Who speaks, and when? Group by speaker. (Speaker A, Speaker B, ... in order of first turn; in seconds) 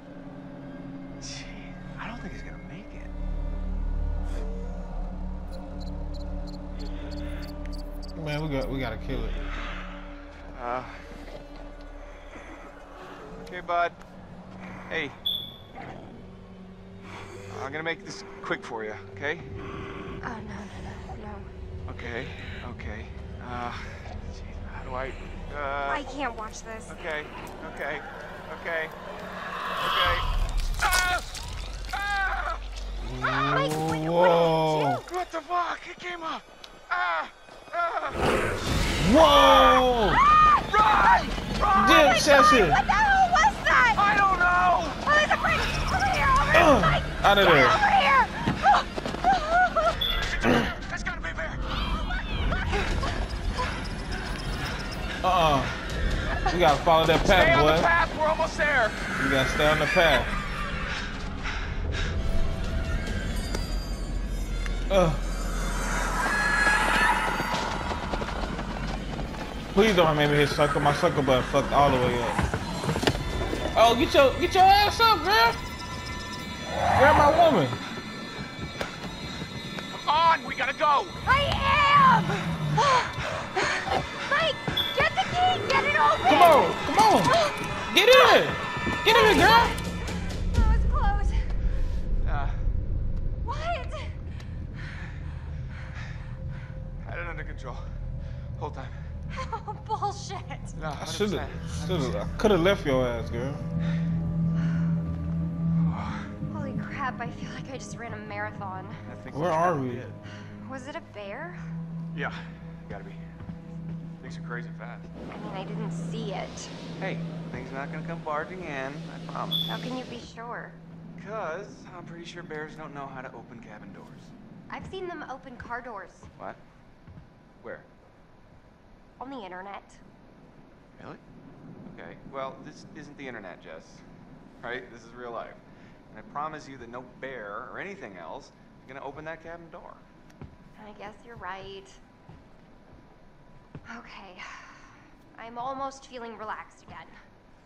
Speaker A: 1.2-3.1, 10.5-11.0, 13.4-14.0, 14.9-15.2, 17.5-19.5, 21.9-26.1, 26.9-28.9, 29.8-30.3, 30.8-31.2, 31.9-32.6, 35.0-38.2, 39.3-39.9, 40.7-42.2, 44.0-45.0, 50.4-51.6, 57.2-59.0, 79.9-81.2, 92.2-92.6, 97.0-97.8, 98.6-99.0, 100.7-102.3, 105.8-106.3, 109.0-110.2, 112.1-113.3, 114.2-115.2, 117.0-119.7, 121.2-124.3, 127.6-127.9, 131.0-131.2, 131.8-134.0, 134.6-140.0
Speaker B: 8.2-9.4, 33.0-35.1, 39.0-40.2, 41.8-42.8, 46.5-47.8, 55.2-55.8, 56.5-57.9, 59.2-60.4, 64.9-65.2, 69.7-72.4, 73.7-75.6, 77.0-77.8, 86.2-87.3, 87.9-89.7, 101.0-103.6, 109.3-110.1
Speaker C: 20.2-21.5, 25.9-27.1, 33.3-35.0, 42.1-44.1, 45.0-50.0, 81.3-86.7, 87.3-87.6, 88.1-88.4, 89.1-91.4, 93.4-94.2, 99.3-100.8, 106.5-109.0, 110.4-111.6, 115.3-116.7, 119.7-120.8, 124.7-126.3, 129.2-130.0, 140.8-142.0, 143.9-147.2